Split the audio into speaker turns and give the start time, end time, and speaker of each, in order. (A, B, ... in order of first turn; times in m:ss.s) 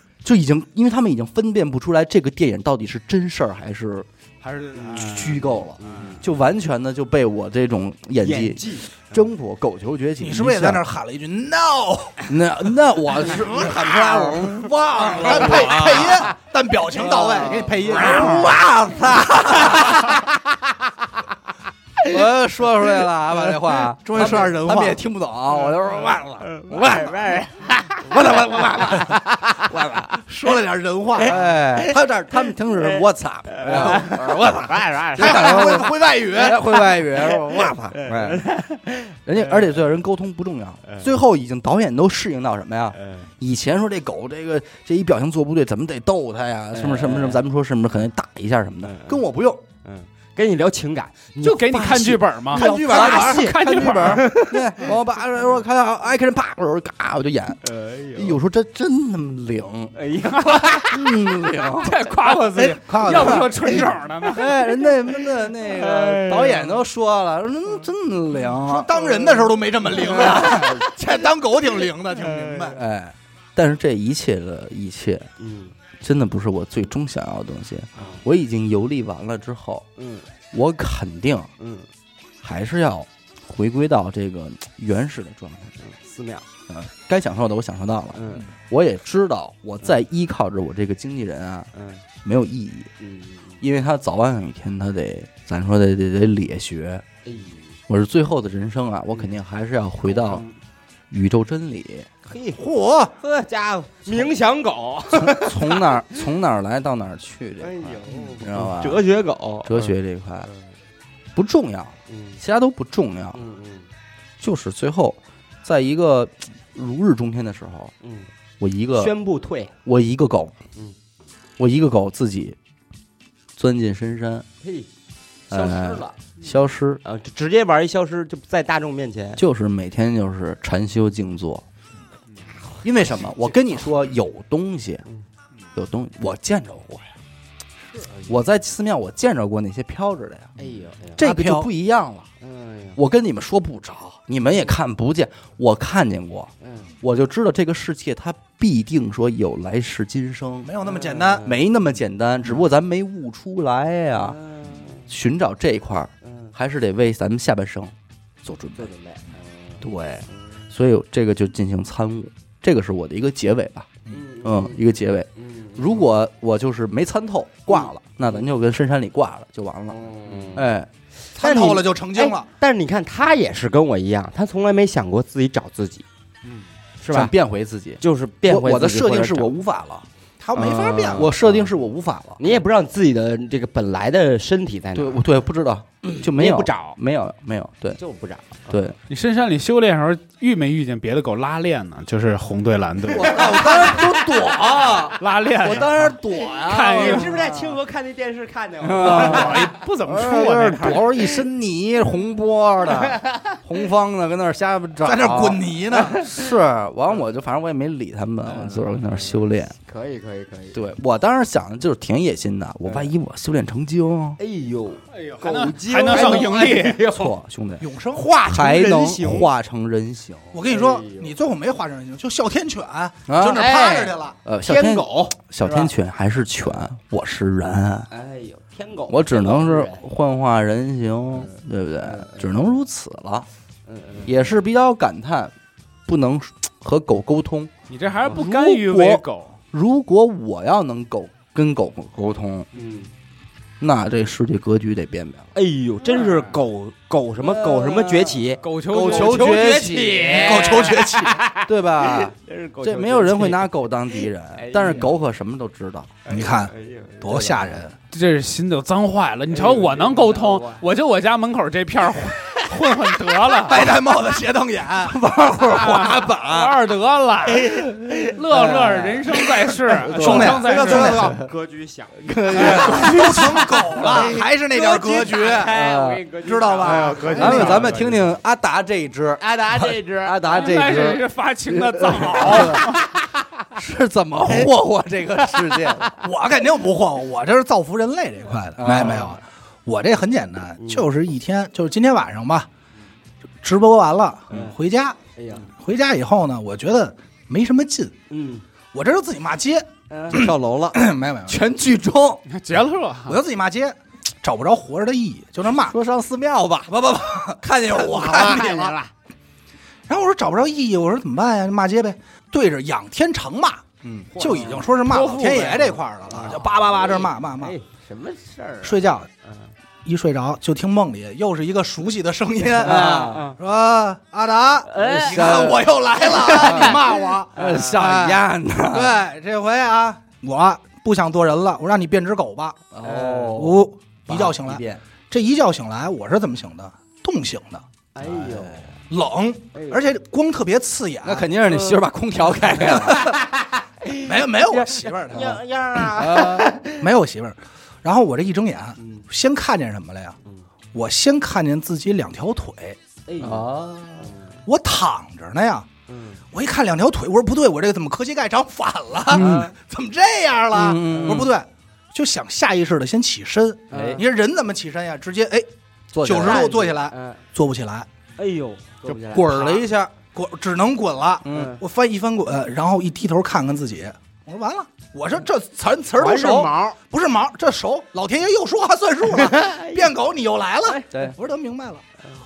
0:00.2-0:04.1 A
0:04.4-0:05.5 B
0:04.8-0:05.3 C
0:04.8-0:10.8 A
0:05.8-0:06.2 C
0:08.2-0:09.2 C
0:10.2-0:12.4 D
0:12.3-0:16.3 A
0:13.2-0:18.6 D
0:13.6-0:13.9 C
0:15.0-0:16.3 C
0:16.9-0:18.5 C
0:17.3-0:20.2 A
0:17.9-0:18.5 B
0:19.3-0:20.1 C
0:22.0-0:27.4 A
0:24.0-0:25.0 D
0:26.4-0:30.0 C
0:28.1-0:30.1 A
0:30.1-0:31.4 D
0:31.2-0:38.5 A
0:33.5-0:35.9 C
0:33.7-0:34.0 D
0:35.1-0:36.6 D
0:37.2-0:39.2 C
0:39.2-0:49.6 A
0:40.8-0:41.1 C
0:42.9-0:43.3 C
0:46.7-0:47.4 C
0:48.8-0:49.2 C
0:49.8-0:51.9 C
0:51.4-0:54.3 B
0:51.7-0:59.9 A
0:52.5-0:53.5 D
0:53.8-0:54.9 C
0:57.6-0:58.4 C
0:59.9-1:00.8 C
1:00.3-1:00.9 B
1:00.6-1:02.0 A
1:01.8-1:04.5 B
1:02.4-1:03.8 C
1:02.9-1:03.6 D
1:03.1-1:03.5 A
1:04.2-1:08.9 A
1:05.4-1:06.8 C
1:08.6-1:12.8 D
1:09.0-1:10.7 C
1:10.0-1:10.8 A
1:12.2-1:12.7 C
1:12.7-1:15.3 A
1:15.4-1:15.7 C
1:16.0-1:19.8 A
1:18.0-1:18.2 C
1:20.0-1:20.3 C
1:20.5-1:21.5 A
1:21.6-1:21.9 C
1:22.4-1:25.8 A
1:25.8-1:26.4 C
1:26.7-1:31.7 A
1:28.1-1:28.5 C
1:31.7-1:32.0 C
1:32.2-1:32.9 A
1:33.0-1:33.6 C
1:33.6-1:37.0 A
1:37.2-1:37.8 C
1:37.9-1:40.4 A
1:40.1-1:40.5 C
1:41.1-1:42.1 A
1:42.2-1:42.6 C
1:42.5-1:43.1 D
1:43.2-1:46.2 C
1:45.1-1:49.0 A
1:47.6-1:50.5 C
1:49.6-1:50.5 A
1:51.3-1:53.4 A
1:52.1-1:52.4 C
1:53.3-1:53.9 C
1:54.4-1:57.9 A
1:58.0-1:58.3 C
1:58.6-1:59.1 A
1:58.9-1:59.7 C
1:59.8-2:00.5 A
2:01.6-2:02.6 A
2:03.6-2:04.4 A
2:04.6-2:04.9 C
2:05.5-2:06.2 C
2:05.5-2:07.0 A
2:07.0-2:09.4 C
2:09.4-2:11.6 A
2:12.8-2:15.0 A
2:15.7-2:17.1 A
2:18.3-2:20.5 A
2:20.6-2:21.2 C
2:21.2-2:22.3 A
2:21.2-2:21.7 D
2:22.4-2:23.0 C
2:23.0-2:30.7 A
2:26.6-2:26.9 C
2:30.6-2:31.5 D
2:30.8-2:31.6 C
2:31.4-2:34.4 A
2:34.2-2:35.1 C
2:35.1-2:38.9 A
2:36.2-2:36.5 C
2:38.8-2:39.8 C
2:39.8-2:50.0 A
2:44.1-2:44.8 C
2:45.4-2:46.1 C
2:47.7-2:48.4 C
2:49.9-2:50.7 C
2:50.5-2:50.9 A
2:51.3-2:56.0 C
2:51.4-2:52.5 D
2:57.0-2:57.3 C
2:57.1-3:00.0 A
2:58.0-2:59.5 C
3:00.4-3:01.3 D
3:00.5-3:01.7 C
3:01.1-3:02.6 A
3:02.4-3:05.2 C
3:04.9-3:08.0 A
3:06.0-3:07.0 C
3:08.0-3:08.8 C
3:08.7-3:09.0 A
3:09.1-3:13.8 B
3:13.1-3:17.7 A
3:13.2-3:14.5 C
3:15.2-3:17.5 B
3:16.8-3:19.7 C
3:18.8-3:25.6 A
3:19.0-3:21.0 B
3:22.9-3:23.6 C
3:25.0-3:26.2 D
3:25.9-3:26.3 C
3:26.2-3:29.7 A
3:28.5-3:29.3 C
3:29.8-3:30.8 C
3:30.7-3:34.4 A
3:32.8-3:33.1 C
3:34.4-3:37.4 C
3:35.1-3:37.0 B
3:36.1-3:37.9 A
3:37.8-3:38.4 D
3:38.2-3:39.5 C
3:38.4-3:40.6 A
3:40.5-3:44.3 D
3:40.6-3:41.4 C
3:43.3-3:43.8 A
3:43.5-3:45.9 C
3:44.4-3:48.1 A
3:48.1-3:50.0 C
3:49.1-3:53.5 A
3:51.4-3:52.5 C
3:53.8-3:54.4 C
3:54.2-3:55.5 A
3:56.1-3:57.7 A
3:57.9-3:59.5 B
3:58.2-4:02.7 A
4:02.7-4:03.1 C
4:03.8-4:05.5 A
4:05.5-4:13.7 C
4:06.1-4:06.6 B
4:07.4-4:16.1 A
4:08.6-4:09.6 B
4:10.3-4:11.3 D
4:14.5-4:15.1 C
4:16.2-4:17.8 C
4:16.3-4:17.9 D
4:18.1-4:23.9 B
4:19.5-4:20.8 C
4:23.6-4:25.2 D
4:25.0-4:26.8 A
4:25.6-4:31.4 B
4:27.6-4:29.2 C
4:28.5-4:29.2 A
4:30.0-4:31.4 A
4:30.1-4:31.4 D
4:30.3-4:38.1 C
4:32.2-4:33.6 A
4:32.6-4:33.6 B
4:32.6-4:35.7 D
4:35.7-4:36.2 A
4:36.4-4:37.8 D
4:36.8-4:38.2 B
4:37.3-4:43.2 A
4:39.4-4:40.8 C
4:40.5-4:43.1 B
4:43.7-4:46.2 A
4:46.2-4:52.7 D
4:48.8-4:49.4 A
4:50.8-4:51.0 C
4:53.6-4:55.2 D
4:54.5-4:54.8 C
4:55.4-4:55.7 C
4:55.7-4:58.1 D
4:58.3-4:58.6 C
4:58.9-5:01.6 D
5:00.1-5:00.5 C
5:00.3-5:02.4 A
5:02.5-5:03.4 B
5:03.3-5:06.0 D
5:05.6-5:07.0 A
5:06.9-5:08.9 D
5:07.6-5:08.9 A
5:08.1-5:09.1 C
5:10.1-5:17.8 D
5:14.0-5:14.3 A
5:14.3-5:14.9 C
5:15.0-5:16.0 B
5:16.3-5:19.7 C
5:18.8-5:19.3 D
5:20.0-5:32.8 D
5:22.8-5:23.6 C
5:22.8-5:23.4 A
5:24.9-5:28.0 C
5:25.0-5:25.9 A
5:26.4-5:29.2 A
5:32.9-5:35.0 A
5:33.0-5:33.6 C
5:33.5-5:37.8 D
5:38.1-5:38.9 C
5:38.2-5:38.8 A
5:39.1-5:41.5 D
5:39.7-5:40.0 C
5:41.2-5:43.4 A
5:41.7-5:42.0 C
5:42.8-5:47.0 C
5:44.2-5:45.6 D
5:46.1-5:46.8 A
5:46.9-5:50.4 D
5:49.0-5:49.2 C
5:50.9-5:53.0 D
5:53.3-5:53.7 C
5:53.4-5:54.3 A
5:54.2-5:54.6 C
5:54.6-5:55.9 D
5:56.1-5:56.4 C
5:56.5-6:05.7 D
5:59.3-5:59.7 A
5:59.3-5:59.7 C
6:00.7-6:01.5 A
6:01.0-6:01.5 C
6:03.9-6:04.2 C
6:03.9-6:04.2 A
6:06.1-6:06.8 A
6:06.2-6:08.1 D
6:06.4-6:07.4 C
6:08.4-6:09.8 C
6:09.1-6:10.1 A
6:09.4-6:22.0 D
6:11.4-6:11.7 A
6:11.5-6:11.8 C
6:16.2-6:17.0 C
6:19.4-6:20.1 C